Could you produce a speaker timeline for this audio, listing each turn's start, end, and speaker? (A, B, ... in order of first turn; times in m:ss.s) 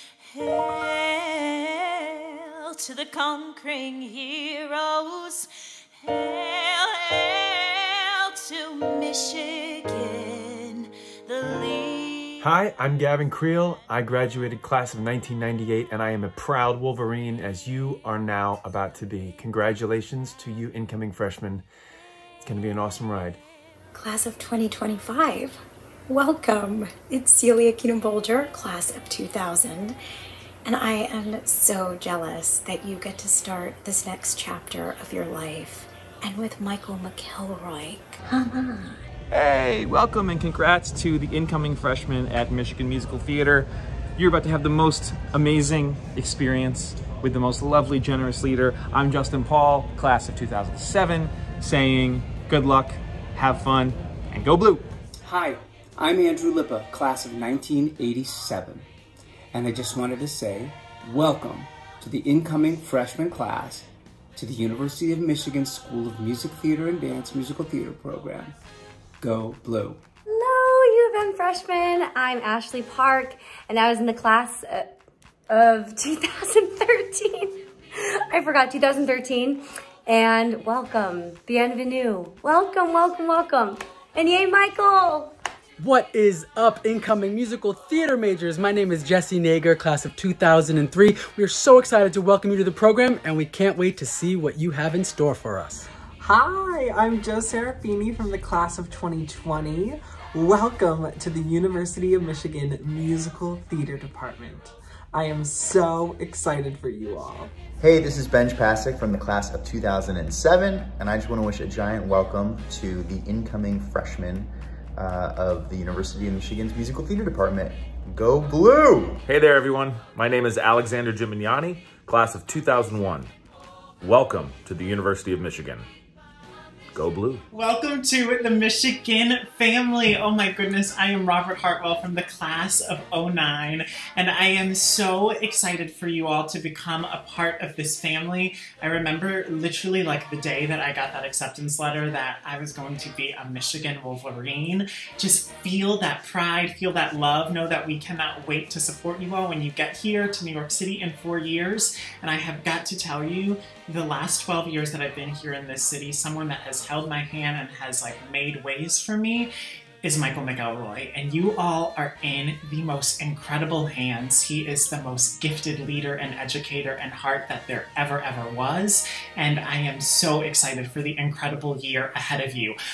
0:00.3-0:01.8 A
0:02.8-0:05.4 A
0:06.0-0:12.5 A
0:12.4-0:21.6 B
0:22.4-0:23.4 B
0:23.9-0:25.6 C
0:26.1-0:30.0 C
0:30.6-0:39.0 C
0:39.3-0:54.9 D
0:55.2-0:58.9 E
0:59.5-1:08.5 E
1:09.2-1:10.0 E
1:10.3-1:14.9 F
1:15.5-1:17.5 F
1:18.3-1:25.3 F
1:25.8-1:35.8 G
1:36.2-1:47.5 H
1:47.8-1:59.2 I
1:59.3-2:03.3 J
2:04.0-2:05.9 J
2:06.9-2:07.4 J
2:07.5-2:39.5 K
2:40.0-2:52.8 K